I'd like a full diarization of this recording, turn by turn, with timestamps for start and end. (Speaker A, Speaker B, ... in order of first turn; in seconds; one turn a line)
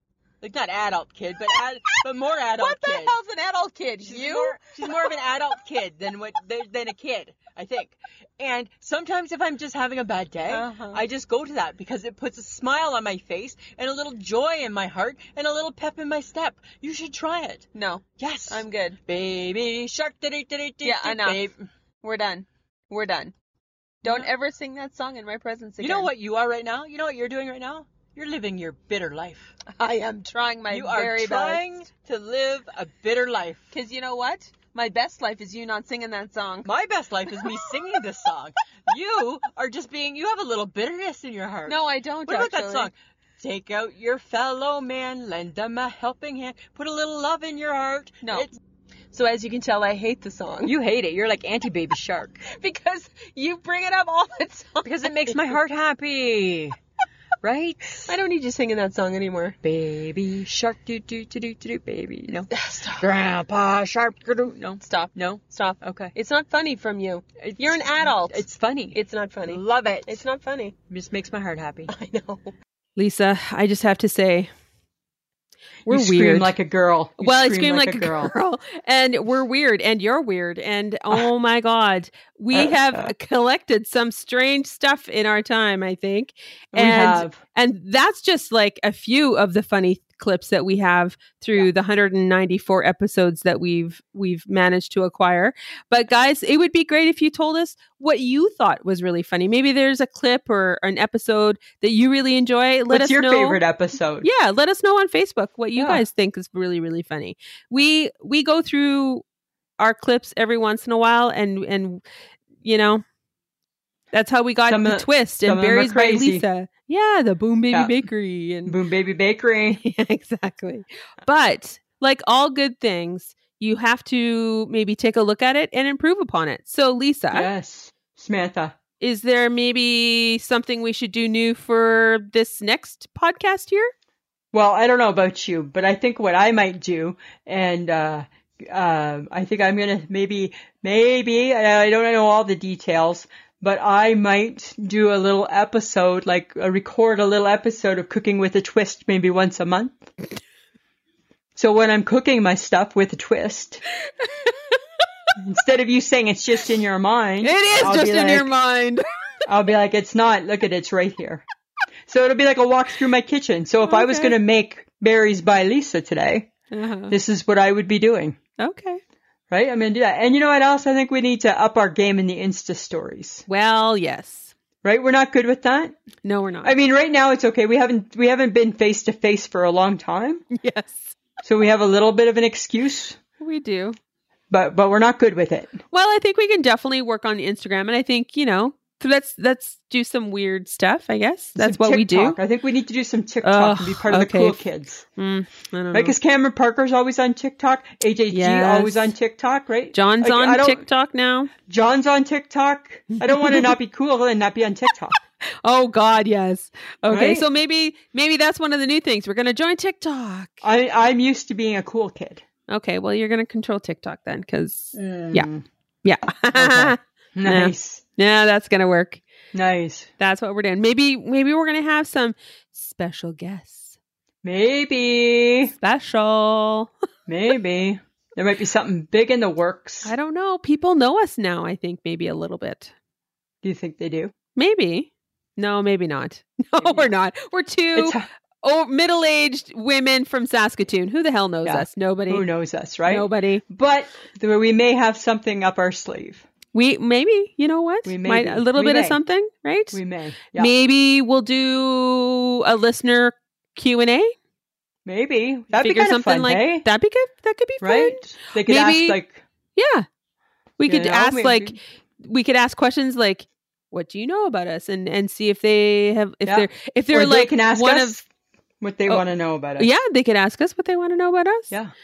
Speaker A: 0.4-3.2
Speaker B: 2.6-5.2
Speaker A: 4.0-17.7
Speaker B: 10.5-11.1
Speaker B: 17.7-19.0
Speaker A: 18.2-21.6
Speaker B: 20.8-21.5
Speaker B: 22.0-23.3
Speaker B: 24.0-26.1
Speaker A: 25.8-29.5
Speaker B: 29.7-31.7
Speaker A: 30.7-33.7
Speaker B: 33.7-36.7
Speaker A: 36.6-48.5
Speaker B: 41.7-42.9
Speaker B: 48.2-48.5
Speaker B: 49.1-50.7
Speaker A: 50.6-52.5
Speaker B: 52.5-55.6
Speaker A: 54.8-56.8
Speaker A: 57.4-58.1
Speaker B: 58.1-59.6
Speaker A: 59.6-66.2
Speaker B: 62.5-63.1
Speaker B: 64.8-70.8
Speaker A: 67.4-70.2
Speaker A: 70.9-71.9
Speaker B: 71.9-72.5
Speaker C: 73.0-74.5
Speaker C: 75.9-76.5
Speaker D: 75.9-78.3
Speaker C: 77.2-103.6
Speaker D: 82.5-83.1
Speaker D: 86.7-87.4
Speaker D: 102.9-104.3
Speaker C: 104.2-109.2
Speaker D: 105.8-106.0
Speaker C: 109.8-112.0
Speaker C: 112.6-113.0
Speaker C: 114.1-118.8
Speaker D: 114.7-116.5
Speaker D: 118.7-119.8
Speaker C: 119.8-127.5
Speaker D: 127.3-128.8
Speaker C: 129.0-133.9
Speaker D: 134.5-150.1
Speaker D: 151.6-153.8
Speaker C: 154.2-154.8
Speaker D: 155.4-158.5
Speaker C: 157.4-159.1
Speaker D: 159.5-161.4
Speaker D: 162.1-166.5
Speaker C: 163.8-164.4
Speaker C: 166.7-167.2
Speaker D: 167.1-168.4
Speaker C: 168.6-169.0
Speaker D: 169.5-173.5
Speaker C: 173.5-174.5
Speaker D: 174.8-176.0
Speaker C: 176.2-176.8
Speaker D: 176.6-180.4
Speaker C: 180.5-181.2
Speaker D: 181.4-183.2
Speaker C: 183.4-184.0
Speaker D: 184.5-185.8
Speaker C: 185.9-192.4
Speaker D: 191.6-195.0
Speaker C: 193.4-194.7
Speaker C: 195.2-196.2
Speaker D: 195.9-200.8
Speaker C: 198.3-199.2
Speaker C: 199.9-201.5
Speaker D: 201.7-205.2
Speaker C: 203.2-203.8
Speaker C: 205.6-210.6
Speaker D: 207.1-207.4
Speaker D: 210.6-212.4
Speaker C: 212.7-215.5
Speaker D: 214.9-215.7
Speaker C: 216.0-219.2
Speaker D: 216.5-218.0
Speaker D: 219.5-220.1
Speaker C: 220.2-224.0
Speaker D: 224.4-225.7
Speaker C: 225.8-226.9
Speaker D: 227.3-230.1
Speaker C: 230.0-232.9
Speaker D: 233.6-234.3
Speaker C: 234.6-242.5
Speaker D: 236.8-237.1
Speaker D: 237.9-238.3
Speaker D: 241.7-246.4
Speaker C: 243.1-243.6
Speaker C: 246.7-254.3
Speaker D: 248.1-249.2
Speaker D: 249.9-250.7
Speaker D: 255.1-256.9
Speaker C: 255.8-259.2
Speaker D: 257.8-259.4
Speaker C: 259.8-260.1
Speaker C: 260.8-268.2
Speaker D: 260.9-261.8
Speaker D: 266.4-268.2
Speaker D: 268.8-269.9
Speaker C: 269.8-271.7